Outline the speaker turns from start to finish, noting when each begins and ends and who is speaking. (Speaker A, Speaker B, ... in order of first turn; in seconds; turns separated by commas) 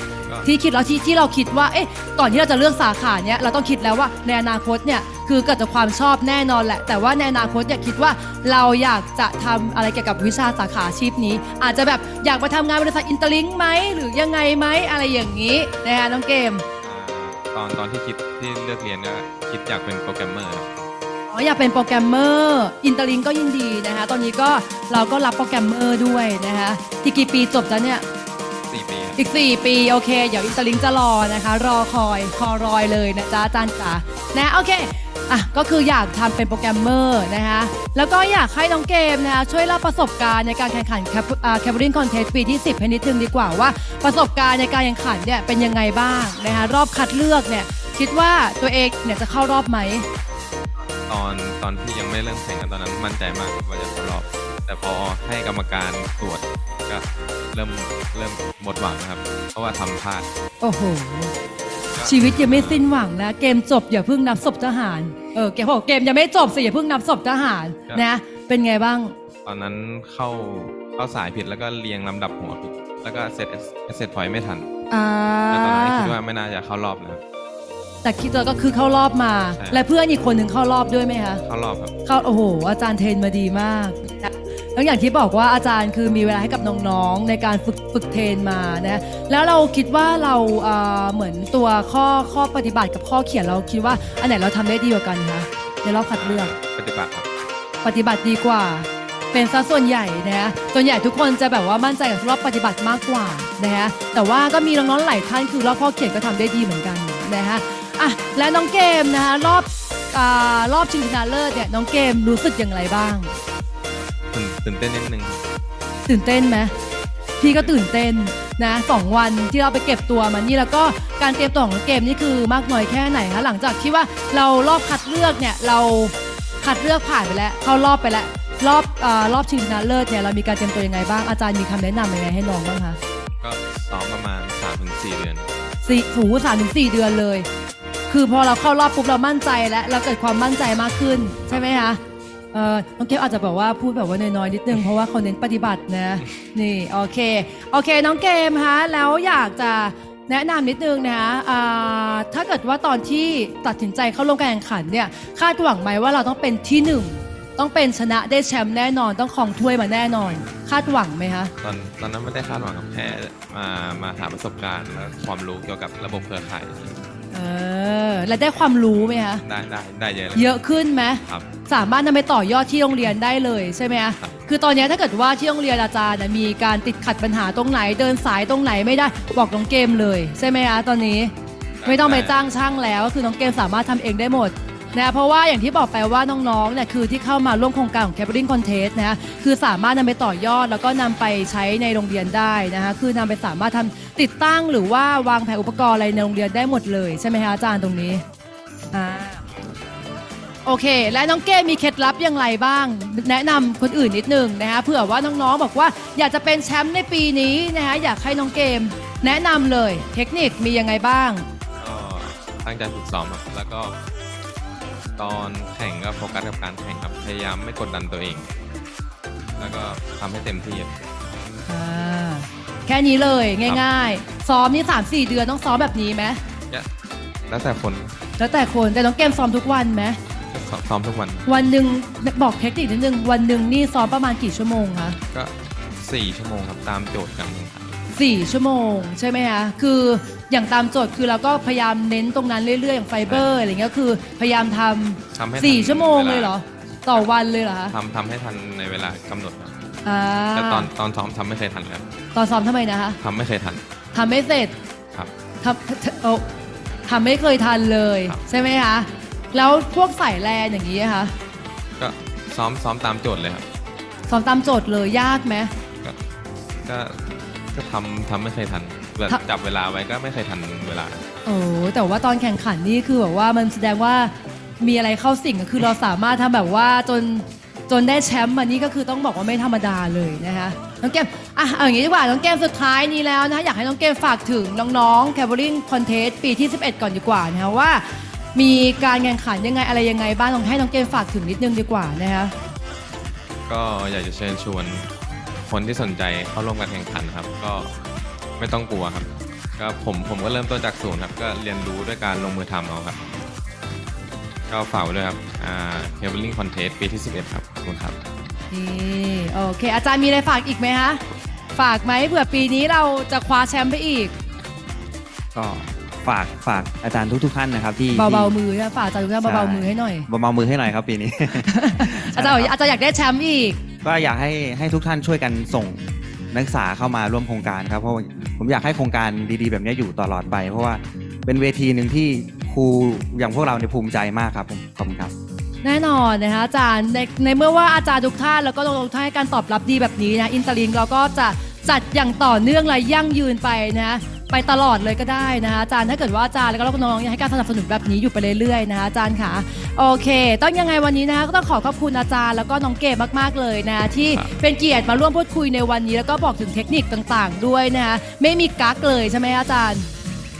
Speaker A: 0.4-16.6, Speaker B: 16.8-20.7, Speaker A: 21.3-28.0, Speaker B: 28.7-29.2, Speaker A: 29.2-50.1, Speaker B: 50.9-60.3, Speaker A: 60.6-61.3, Speaker B: 62.0-62.8, Speaker A: 62.0-69.2, Speaker B: 69.5-74.7, Speaker A: 74.9-76.2, Speaker B: 75.5-77.2, Speaker A: 78.0-81.4, Speaker B: 81.4-81.9, Speaker A: 82.0-96.5, Speaker B: 96.1-97.3, Speaker A: 97.8-113.3, Speaker B: 114.1-115.4, Speaker A: 116.1-116.7, Speaker A: 117.4-133.0, Speaker B: 117.4-117.8, Speaker B: 133.4-135.5, Speaker A: 135.8-137.5, Speaker A: 138.1-142.0, Speaker A: 142.5-161.5, Speaker B: 161.6-167.0, Speaker A: 167.3-169.4, Speaker B: 169.4-170.6, Speaker A: 170.3-181.3, Speaker B: 181.8-182.4, Speaker A: 181.8-198.2, Speaker A: 198.9-199.4, Speaker A: 200.7-211.5, Speaker B: 211.8-214.0, Speaker B: 215.2-218.5, Speaker B: 219.6-221.1, Speaker A: 221.7-226.4, Speaker B: 227.5-228.1, Speaker A: 228.4-230.2, Speaker B: 230.5-231.5, Speaker A: 231.5-235.2, Speaker B: 235.3-238.0, Speaker A: 238.1-247.9, Speaker B: 243.2-243.5, Speaker B: 245.3-246.6, Speaker B: 247.9-249.7, Speaker A: 250.0-250.9, Speaker B: 250.5-252.1, Speaker A: 252.3-253.2, Speaker B: 253.2-253.8, Speaker A: 254.1-254.8, Speaker A: 255.6-256.5, Speaker A: 257.1-261.3, Speaker B: 262.0-263.7, Speaker A: 264.3-265.7, Speaker B: 266.8-271.2, Speaker A: 271.5-292.5, Speaker B: 293.7-295.1, Speaker B: 295.7-297.9, Speaker B: 298.6-303.2, Speaker B: 304.7-308.2, Speaker A: 308.7-311.2, Speaker A: 311.8-314.3, Speaker C: 315.5-318.6, Speaker A: 318.1-320.3, Speaker C: 319.4-322.7, Speaker A: 321.6-323.8, Speaker C: 324.0-335.3, Speaker A: 335.8-360.1